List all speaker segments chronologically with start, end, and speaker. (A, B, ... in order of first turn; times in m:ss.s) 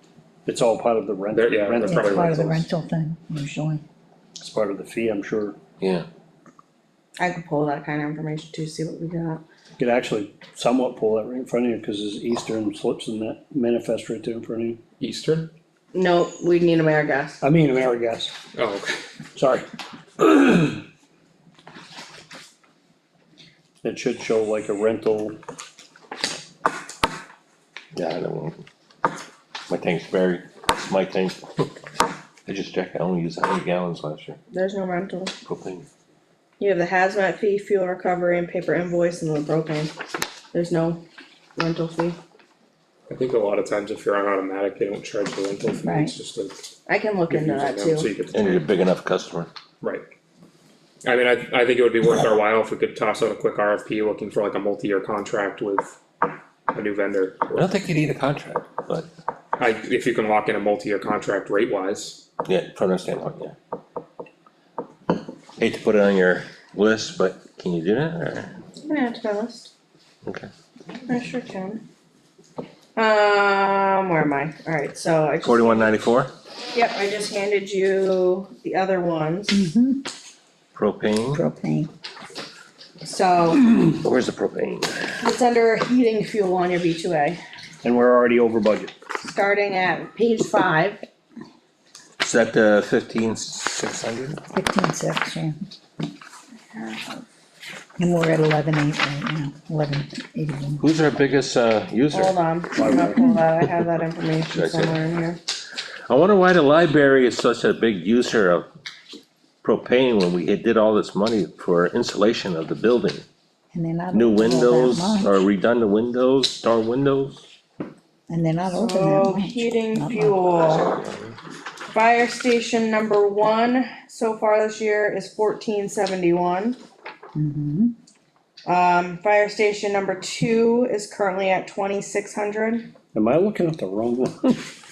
0:00.5-0:02.6 A
0:01.3-0:02.6 B
0:01.8-0:03.8 C
0:04.4-0:05.6 A
0:05.8-0:06.1 D
0:07.2-0:09.4 E
0:09.8-0:14.8 A
0:15.0-0:15.5 B
0:15.9-0:17.4 E
0:17.4-0:18.3 A
0:18.5-0:19.0 B
0:19.4-0:19.7 A
0:20.2-0:20.8 A
0:23.8-0:25.4 A
0:28.0-0:28.6 D
0:29.7-0:31.6 D
0:32.5-0:34.4 D
0:34.5-0:35.3 E
0:35.5-0:35.9 D
0:36.6-0:39.9 E
0:40.5-0:41.0 E
0:41.6-0:42.2 E
0:43.1-0:46.6 B
0:45.8-0:46.1 C
0:46.9-0:48.1 E
0:47.3-0:48.6 B
0:48.2-0:49.5 D
0:51.0-0:56.0 B
0:56.7-0:57.7 B
0:57.5-0:59.1 D
0:59.6-1:02.2 B
1:02.5-1:03.5 D
1:05.6-1:08.5 D
1:08.8-1:09.7 E
1:11.1-1:11.8 E
1:13.0-1:15.9 E
1:15.4-1:16.3 D
1:16.7-1:19.6 E
1:19.5-1:20.0 C
1:20.7-1:21.4 D
1:21.4-1:21.9 C
1:23.0-1:23.7 E
1:23.9-1:25.2 D
1:25.3-1:27.4 E
1:27.8-1:28.9 A
1:29.2-1:31.0 E
1:32.2-1:34.4 D
1:34.5-1:35.6 C
1:36.7-1:37.2 E
1:38.0-1:40.8 C
1:40.8-1:42.9 D
1:42.2-1:45.4 E
1:42.8-1:43.3 A
1:43.6-1:43.9 D
1:44.5-1:45.0 D
1:46.1-1:48.7 D
1:49.6-1:53.2 D
1:53.7-1:55.4 C
1:54.1-1:57.5 D
1:58.3-2:00.5 C
1:58.7-2:00.8 E
2:01.9-2:06.8 E
2:07.4-2:07.9 C
2:08.6-2:12.9 E
2:13.1-2:14.6 A